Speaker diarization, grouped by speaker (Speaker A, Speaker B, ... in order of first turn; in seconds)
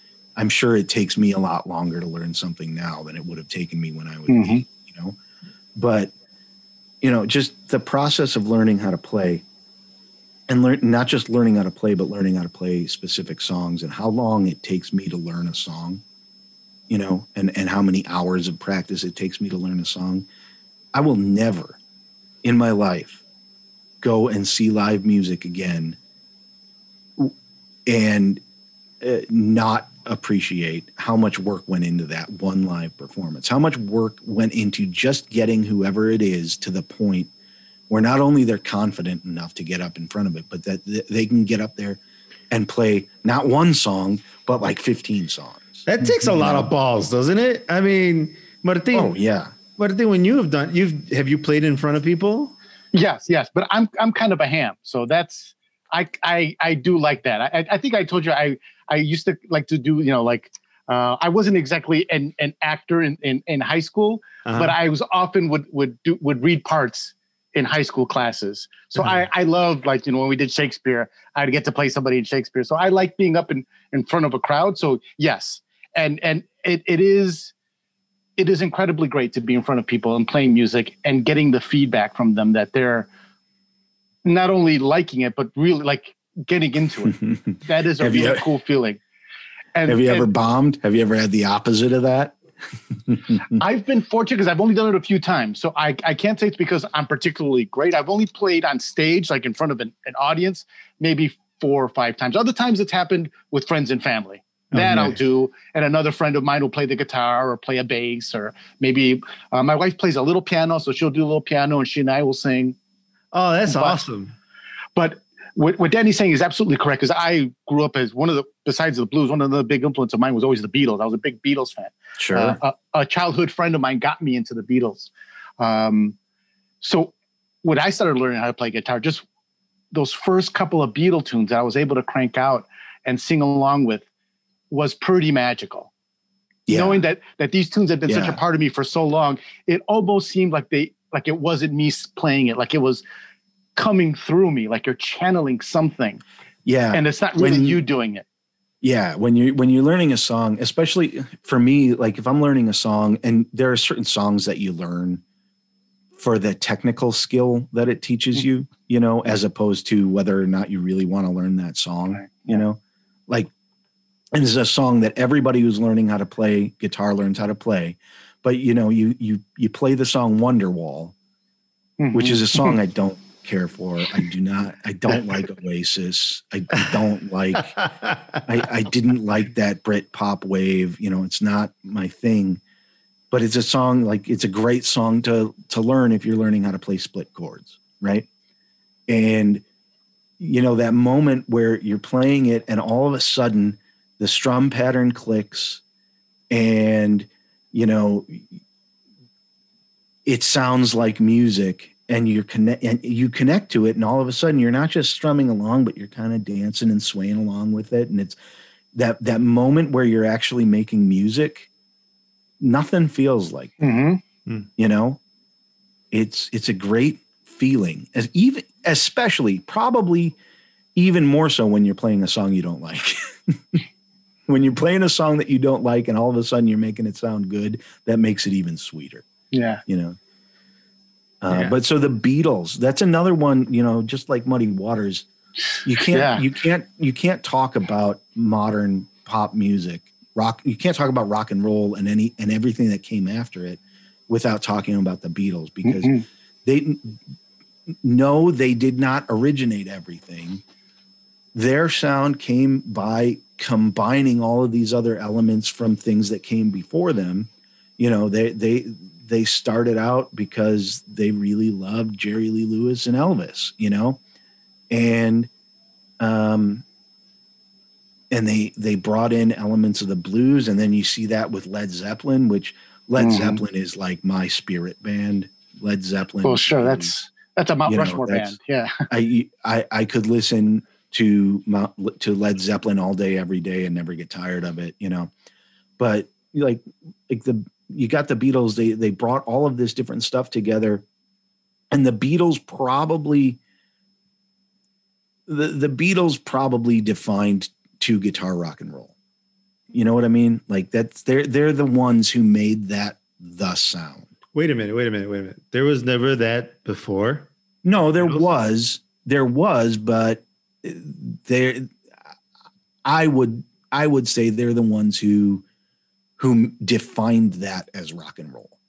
Speaker A: 0.4-5.2, 5.8-6.1, 7.0-9.4, 10.5-16.0, 16.9-20.3, 20.9-21.8, 22.4-23.2, 24.0-26.0, 27.9-28.4, 29.0-37.3, 37.9-46.7, 48.9-49.5, 87.3-88.5, 89.9-92.4, 93.1-93.6, 122.2-122.6, 136.7-137.0, 138.1-138.4, 146.7-147.8, 148.8-155.2, 156.2-163.5, 164.3-171.1, 172.1-177.8, 178.5-182.6, 183.3-188.3, 189.1-189.6, 190.4-195.8, 196.5-198.6, 200.3-208.4, 208.9-211.7, 212.6-213.9, 214.8-215.2, 216.1-220.4, 220.9-223.8, 224.5-229.3, 229.9-230.2, 231.4-235.3, 235.8-247.2, 248.0-250.6, 251.5-264.2, 264.9-265.5, 266.2-266.8, 268.3-277.1, 277.9-278.6, 279.1-285.3, 286.0-291.1, 291.9-293.6, 295.5-299.1, 299.9-304.3, 307.8-312.0, 313.1-315.6, 316.4-318.7
Speaker B: 4.3-4.6, 52.9-77.5, 78.4-83.1, 84.2-89.0, 89.8-90.3, 93.5-112.8, 113.7-114.0, 115.0-126.2, 126.8-129.2, 129.9-134.1, 134.7-135.9, 136.7-143.1, 143.8-146.2, 146.9-148.2, 162.2-162.6, 172.0-172.8, 213.8-214.2, 229.5-229.8, 236.1-236.4, 245.8-246.2, 273.2-273.6, 276.4-279.1
Speaker C: 45.9-49.1, 49.8-52.5, 64.5-64.8, 69.0-69.2, 104.7-105.2, 113.3-114.3, 177.7-178.4, 231.5-231.8, 304.5-307.5